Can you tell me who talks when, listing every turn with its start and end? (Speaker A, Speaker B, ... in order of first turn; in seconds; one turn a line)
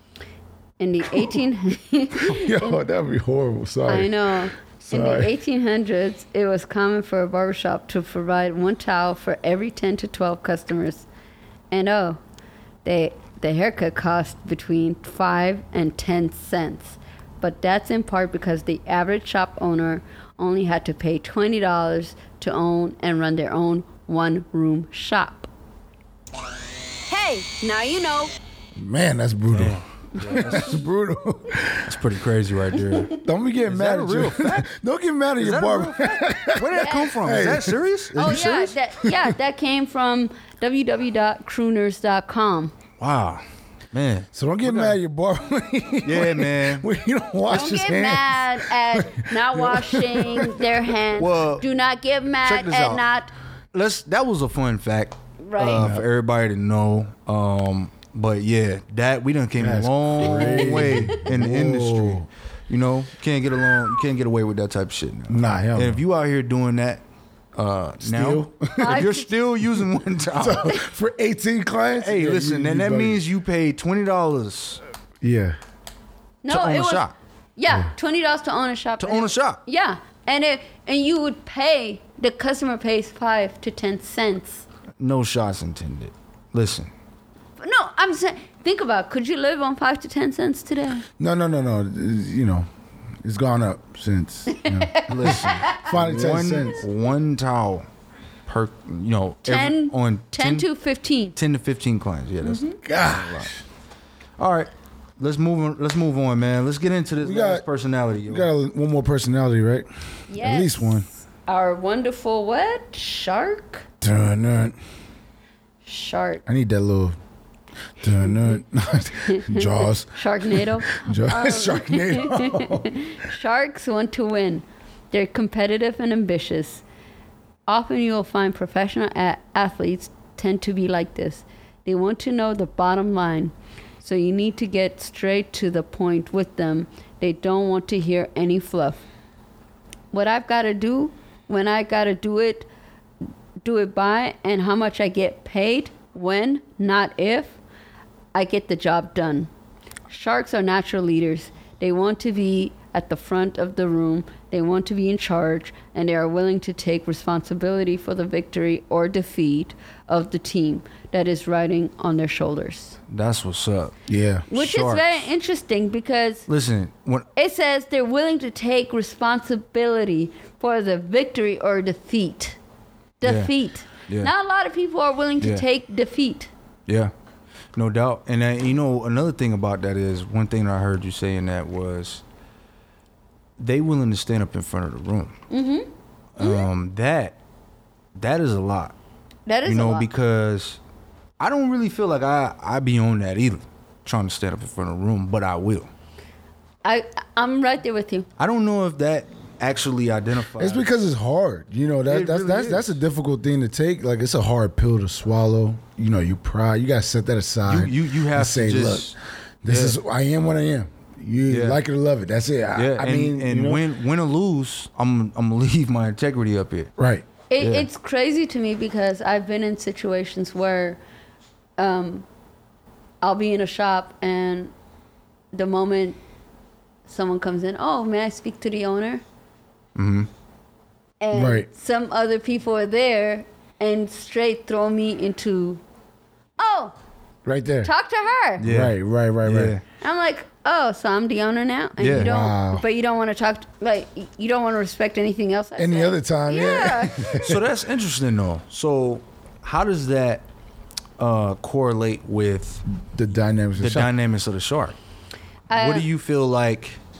Speaker A: 0.8-2.8
Speaker B: 2.2-5.3
Speaker A: 3.9-11.1
Speaker A: 11.7-12.2
Speaker A: 12.8-25.5
Speaker A: 27.1-28.3
Speaker B: 28.8-31.9
Speaker C: 29.5-30.8
Speaker C: 31.8-34.6
Speaker B: 33.2-39.3
Speaker C: 35.4-38.7
Speaker A: 36.8-37.1
Speaker A: 38.1-42.7
Speaker C: 43.0-45.0
Speaker B: 44.3-50.7
Speaker C: 46.0-46.9
Speaker A: 47.5-53.3
Speaker C: 51.2-51.6
Speaker C: 52.4-53.0
Speaker C: 53.7-67.0
Speaker A: 55.4-55.9
Speaker B: 55.7-56.0
Speaker B: 59.6-62.3
Speaker A: 60.3-61.2
Speaker B: 65.3-66.0
Speaker C: 67.5-70.8
Speaker B: 68.0-69.1
Speaker A: 68.8-69.3
Speaker B: 70.3-73.2
Speaker C: 72.0-74.8
Speaker B: 75.2-75.6
Speaker A: 76.4-84.6
Speaker C: 76.5-77.1
Speaker C: 79.0-79.6
Speaker C: 85.0-86.9
Speaker A: 87.6-91.0
Speaker B: 91.2-92.7
Speaker B: 93.2-96.8
Speaker A: 94.5-95.9
Speaker C: 95.1-97.8
Speaker C: 98.5-100.7
Speaker A: 99.4-101.3
Speaker C: 101.3-103.5
Speaker A: 102.4-102.8
Speaker B: 102.8-103.6
Speaker C: 104.4-108.5
Speaker B: 107.2-107.6
Speaker B: 108.2-111.1
Speaker A: 110.3-113.8
Speaker B: 114.0-114.8
Speaker A: 115.8-116.4
Speaker B: 116.5-117.2
Speaker B: 118.0-122.9
Speaker A: 119.2-126.8
Speaker A: 127.7-139.0
Speaker A: 140.1-142.7
Speaker A: 143.6-147.6
Speaker A: 148.3-149.5
Speaker A: 150.1-163.0
Speaker C: 163.1-163.9
Speaker B: 164.1-164.5
Speaker A: 164.5-166.5
Speaker C: 164.5-165.2
Speaker C: 166.5-167.2
Speaker A: 167.3-172.6
Speaker A: 173.2-176.5
Speaker C: 173.2-173.5
Speaker C: 175.4-175.6
Speaker C: 177.7-182.2
Speaker C: 183.6-185.3
Speaker A: 185.5-186.7
Speaker C: 186.4-187.4
Speaker C: 188.2-188.9
Speaker A: 189.5-190.1
Speaker C: 189.6-190.8
Speaker C: 191.4-195.9
Speaker A: 196.8-198.3
Speaker C: 198.4-200.9
Speaker B: 200.6-209.1
Speaker C: 202.1-202.9
Speaker C: 207.7-209.2
Speaker B: 209.6-213.8
Speaker C: 209.7-210.0
Speaker C: 211.5-211.8
Speaker C: 212.8-216.9
Speaker B: 217.0-217.3
Speaker A: 217.5-221.0
Speaker C: 217.6-217.9
Speaker A: 221.8-222.2
Speaker A: 223.2-224.7
Speaker A: 225.5-226.2
Speaker A: 227.1-229.2
Speaker C: 229.9-230.3
Speaker A: 231.2-235.8
Speaker B: 231.3-231.7
Speaker A: 236.6-236.9
Speaker B: 237.4-237.9
Speaker A: 237.8-238.6
Speaker C: 238.6-239.8
Speaker B: 238.6-239.8
Speaker A: 240.0-247.5
Speaker C: 242.0-242.3
Speaker B: 242.1-242.8
Speaker B: 245.8-247.6
Speaker C: 247.4-250.4
Speaker C: 251.2-252.8
Speaker B: 253.0-254.1
Speaker C: 253.8-255.0
Speaker A: 255.7-256.1
Speaker C: 255.7-257.0